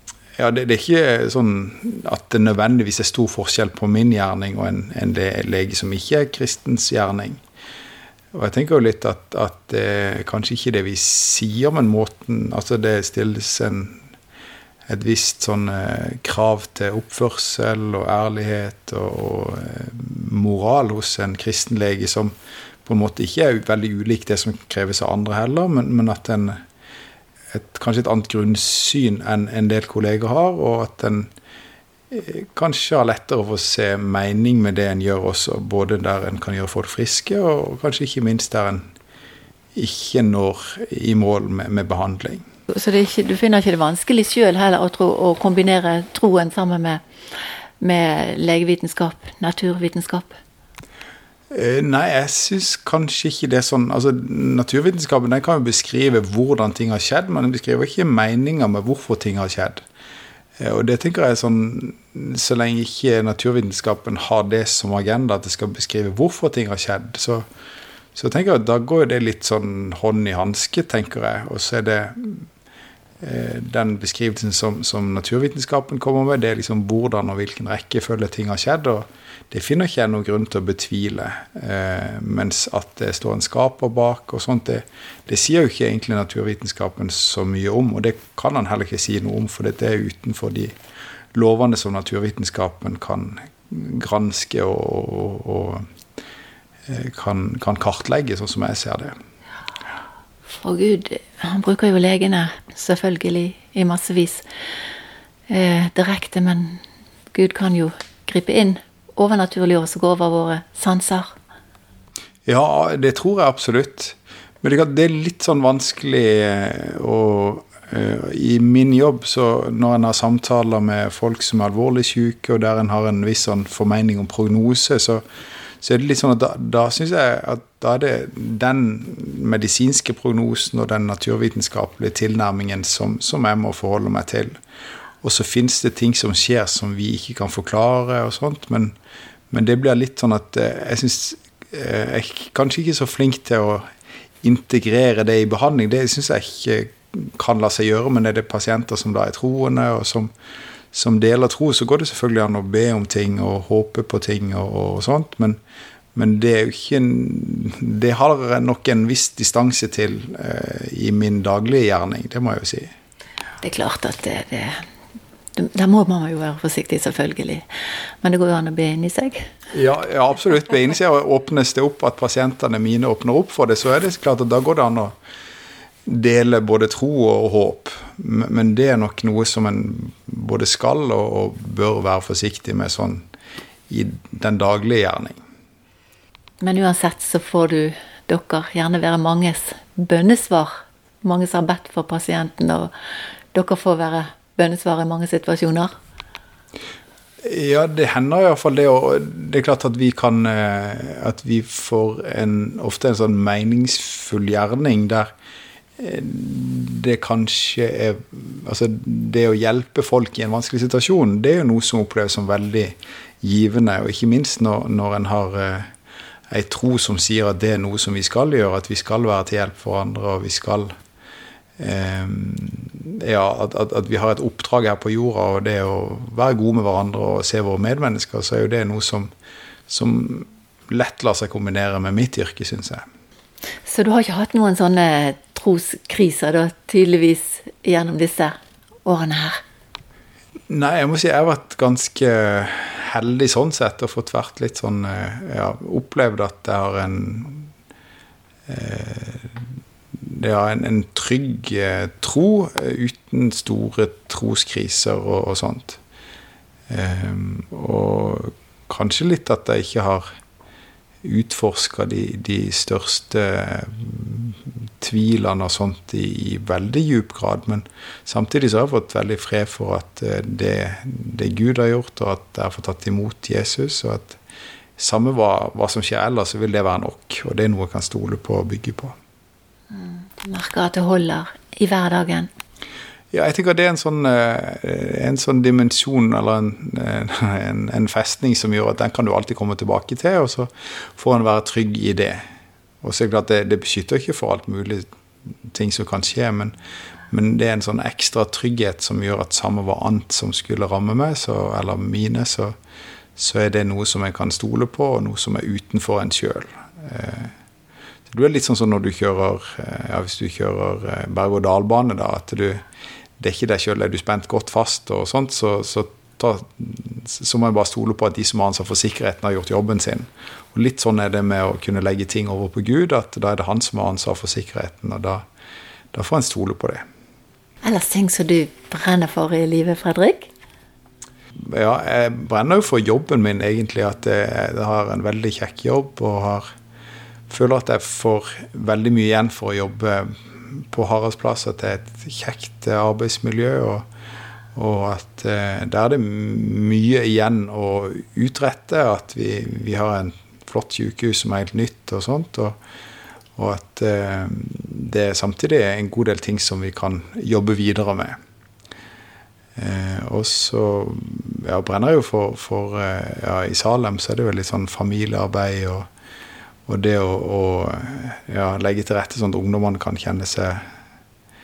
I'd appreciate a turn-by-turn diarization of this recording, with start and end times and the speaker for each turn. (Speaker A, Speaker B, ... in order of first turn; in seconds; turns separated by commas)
Speaker A: 0.4-7.4, Speaker A: 8.3-14.0, Speaker A: 14.9-26.6, Speaker A: 27.5-31.3, Speaker A: 32.1-38.9, Speaker A: 39.7-42.4, Speaker B: 42.7-47.0, Speaker B: 47.8-50.4, Speaker A: 51.5-59.8, Speaker A: 60.6-67.4, Speaker A: 68.1-72.5, Speaker A: 73.2-90.7, Speaker A: 91.3-95.8, Speaker A: 96.9-99.1, Speaker B: 100.5-104.4, Speaker B: 105.5-106.8, Speaker B: 107.3-111.3, Speaker A: 112.5-125.2, Speaker A: 125.8-134.6, Speaker A: 135.2-138.9, Speaker A: 139.5-143.9, Speaker A: 144.4-150.3, Speaker A: 150.9-155.6, Speaker A: 156.1-162.9, Speaker B: 163.6-164.8, Speaker B: 165.6-167.6, Speaker B: 168.2-169.5, Speaker A: 169.7-175.1, Speaker A: 176.1-183.2, Speaker A: 183.9-185.4, Speaker B: 186.6-192.9, Speaker B: 193.5-195.9, Speaker A: 197.4-205.3, Speaker A: 206.0-215.9, Speaker A: 216.5-220.9, Speaker A: 221.8-229.3, Speaker A: 229.9-233.0, Speaker B: 233.8-239.6, Speaker A: 240.7-247.7, Speaker A: 248.7-249.6, Speaker A: 250.2-256.0, Speaker A: 256.9-260.2, Speaker A: 261.2-274.4, Speaker A: 275.0-279.1, Speaker B: 279.9-282.5, Speaker A: 283.3-292.4, Speaker A: 293.0-295.1, Speaker A: 295.7-296.8, Speaker A: 297.3-302.7, Speaker A: 303.4-307.5, Speaker A: 308.3-312.8, Speaker A: 313.4-325.4, Speaker A: 326.1-327.0, Speaker B: 327.8-330.5, Speaker A: 331.6-336.6, Speaker A: 337.5-344.1, Speaker A: 344.7-352.8, Speaker A: 353.6-358.4, Speaker A: 359.8-366.1, Speaker A: 366.9-370.8